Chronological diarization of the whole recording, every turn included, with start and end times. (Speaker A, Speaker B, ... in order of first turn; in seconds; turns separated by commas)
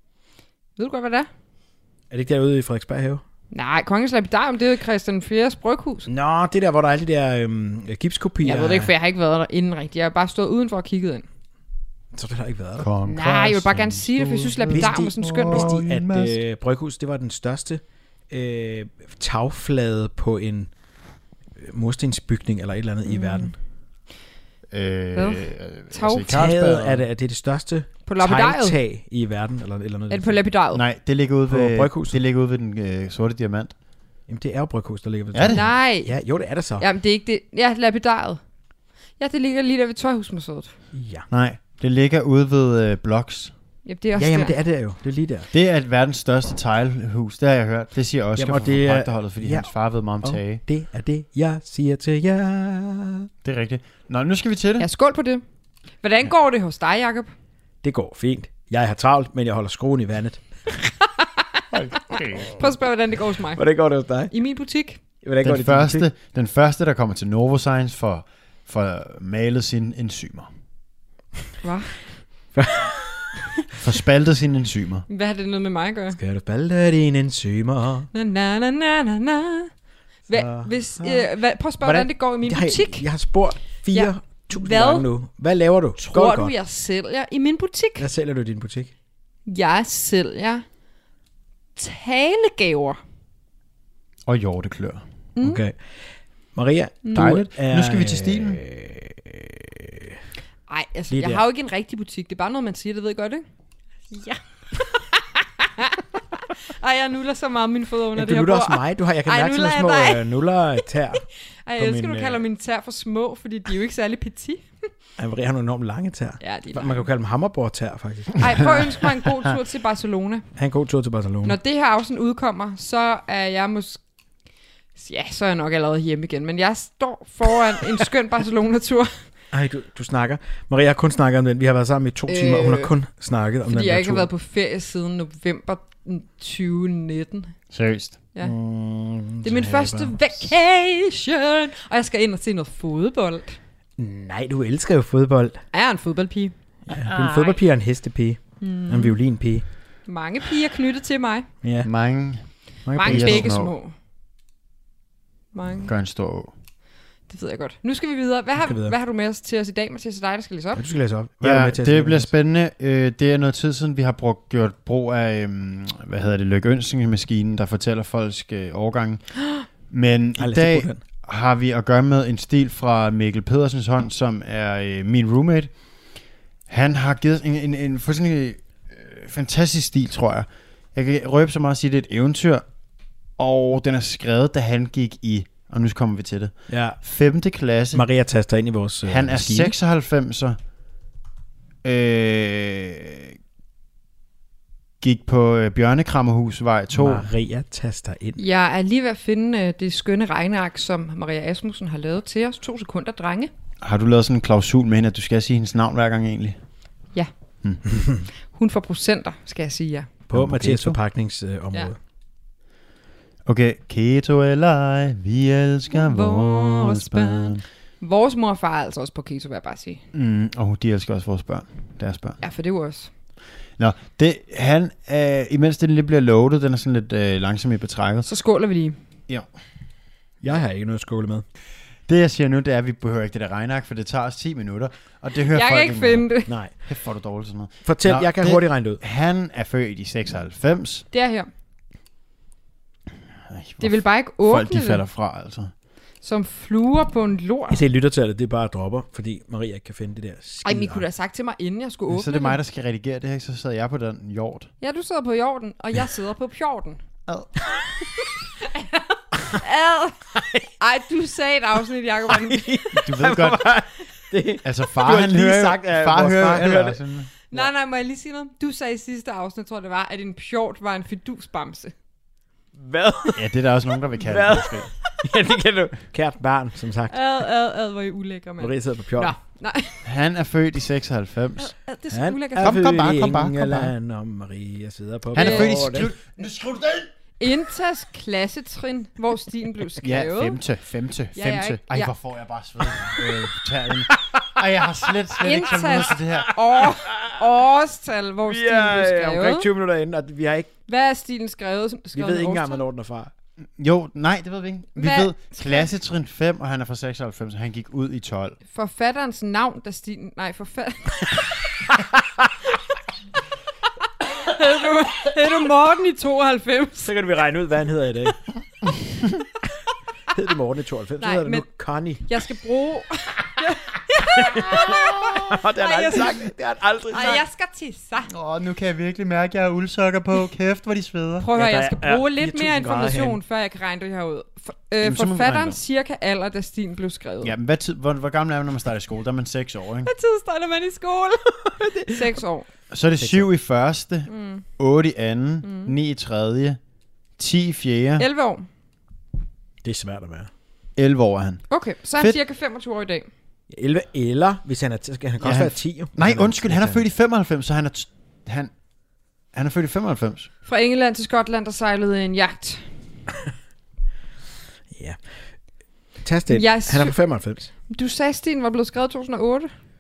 Speaker A: 0.8-1.3, Speaker B: 2.1-3.2, Speaker A: 3.5-6.1, Speaker B: 6.1-8.9, Speaker A: 8.4-11.2, Speaker B: 12.1-12.9, Speaker C: 12.8-16.4, Speaker A: 13.1-15.7, Speaker B: 14.7-20.7, Speaker B: 21.6-23.6, Speaker A: 23.1-23.5, Speaker C: 24.7-27.1, Speaker A: 25.1-26.3, Speaker B: 26.3-30.4, Speaker A: 28.1-28.8, Speaker A: 30.1-30.8, Speaker C: 30.7-33.7, Speaker B: 31.5-32.2, Speaker B: 34.3-36.9, Speaker C: 35.3-35.7, Speaker A: 35.5-36.2, Speaker A: 36.8-38.4, Speaker A: 39.2-40.7, Speaker B: 40.9-41.3, Speaker C: 41.3-43.5, Speaker A: 43.9-44.6, Speaker B: 44.2-45.5, Speaker C: 45.5-50.6, Speaker B: 48.4-49.7, Speaker B: 50.2-53.3, Speaker C: 53.4-54.9, Speaker A: 54.8-55.4, Speaker A: 56.0-57.3, Speaker B: 57.8-60.4, Speaker C: 61.7-62.6, Speaker A: 62.1-65.0, Speaker B: 63.6-64.3, Speaker B: 65.2-66.1, Speaker C: 65.4-70.5, Speaker A: 71.6-72.0, Speaker B: 72.5-73.3, Speaker C: 73.8-75.1, Speaker A: 75.1-76.2, Speaker B: 76.2-78.1, Speaker A: 78.1-79.7, Speaker A: 80.3-83.1, Speaker B: 80.3-86.5, Speaker A: 83.9-85.1, Speaker A: 86.0-88.1, Speaker B: 88.0-88.9, Speaker A: 89.5-90.7, Speaker A: 91.8-93.0, Speaker C: 94.3-95.0, Speaker A: 95.3-95.6, Speaker B: 95.4-95.8, Speaker B: 96.5-100.1, Speaker A: 97.0-97.4, Speaker C: 97.1-98.6, Speaker A: 100.7-103.4, Speaker B: 101.1-101.5, Speaker A: 104.1-106.0, Speaker A: 106.6-110.2, Speaker B: 108.2-111.2, Speaker A: 111.7-114.7, Speaker B: 111.8-112.4, Speaker B: 115.2-118.9, Speaker A: 116.4-117.1, Speaker A: 118.4-120.5, Speaker B: 120.6-121.6, Speaker A: 121.4-124.0, Speaker A: 125.0-129.1, Speaker B: 129.5-134.3, Speaker A: 132.3-132.9, Speaker A: 133.7-137.5, Speaker C: 137.7-138.3, Speaker B: 138.4-140.4, Speaker A: 139.4-143.6, Speaker B: 144.0-145.6, Speaker A: 145.7-146.5, Speaker B: 146.9-149.7, Speaker A: 147.1-147.6, Speaker A: 148.6-149.2, Speaker A: 150.1-151.5, Speaker B: 151.6-151.9, Speaker C: 151.8-153.7, Speaker B: 152.9-153.5, Speaker A: 152.9-153.9, Speaker A: 155.5-155.9, Speaker C: 155.8-156.5, Speaker A: 157.3-160.8, Speaker B: 158.6-159.0, Speaker B: 160.7-162.3, Speaker C: 161.4-169.3, Speaker C: 169.9-175.7, Speaker B: 170.4-171.0, Speaker C: 176.7-182.7, Speaker C: 183.4-188.1, Speaker B: 186.7-187.0, Speaker B: 187.9-189.7, Speaker C: 189.1-190.6, Speaker C: 191.8-193.4, Speaker C: 195.0-197.3, Speaker B: 196.9-198.4, Speaker A: 198.4-203.5, Speaker C: 203.8-206.6, Speaker A: 208.5-210.1, Speaker B: 210.3-212.0, Speaker C: 210.3-211.0, Speaker C: 213.5-217.6, Speaker A: 215.9-220.0, Speaker C: 220.1-222.4, Speaker A: 222.4-223.1, Speaker C: 223.8-228.3, Speaker A: 228.2-229.0, Speaker B: 230.4-231.4, Speaker C: 232.1-241.1, Speaker A: 235.5-236.5, Speaker B: 236.5-236.7, Speaker B: 237.8-239.0, Speaker A: 241.1-241.5, Speaker C: 243.5-245.7, Speaker A: 243.8-245.0, Speaker A: 246.2-247.8, Speaker B: 247.7-251.1, Speaker A: 250.7-252.6, Speaker C: 252.1-254.7, Speaker A: 254.8-257.0, Speaker C: 257.3-257.6, Speaker A: 258.7-263.0, Speaker B: 262.3-267.0, Speaker C: 262.9-263.8, Speaker C: 264.6-267.3, Speaker A: 267.5-271.9, Speaker B: 272.8-273.5, Speaker C: 273.4-274.9, Speaker B: 274.2-277.2, Speaker A: 277.1-280.0, Speaker B: 278.6-279.3, Speaker C: 280.0-281.7, Speaker A: 281.6-282.8, Speaker B: 282.1-286.1, Speaker C: 282.6-283.9, Speaker C: 285.3-287.1, Speaker A: 285.4-285.9, Speaker A: 287.4-290.6, Speaker C: 290.0-296.6, Speaker A: 291.4-292.1, Speaker A: 295.4-299.7, Speaker B: 295.7-297.4, Speaker B: 298.5-300.7, Speaker A: 300.9-302.8, Speaker B: 302.1-303.3, Speaker C: 303.8-308.6, Speaker A: 305.0-305.9, Speaker A: 308.7-311.6, Speaker A: 314.4-317.1, Speaker B: 317.0-318.4, Speaker B: 320.3-322.2, Speaker A: 321.2-321.7, Speaker A: 322.2-326.5, Speaker B: 324.4-327.4, Speaker A: 327.1-328.3, Speaker C: 328.3-331.5, Speaker A: 331.4-337.5, Speaker B: 331.5-333.4, Speaker C: 335.0-335.8, Speaker C: 337.4-340.1, Speaker A: 340.0-342.7, Speaker C: 342.9-346.8, Speaker B: 343.2-343.5, Speaker A: 344.3-344.6, Speaker A: 345.6-345.9, Speaker C: 347.4-348.3, Speaker A: 348.2-348.7, Speaker B: 349.8-350.5, Speaker C: 351.0-352.4, Speaker A: 351.7-353.3, Speaker B: 353.7-357.0, Speaker C: 355.4-358.7, Speaker C: 359.5-360.5, Speaker A: 360.7-362.8, Speaker B: 364.9-365.2, Speaker B: 366.2-367.7, Speaker A: 366.5-367.2, Speaker A: 367.9-369.7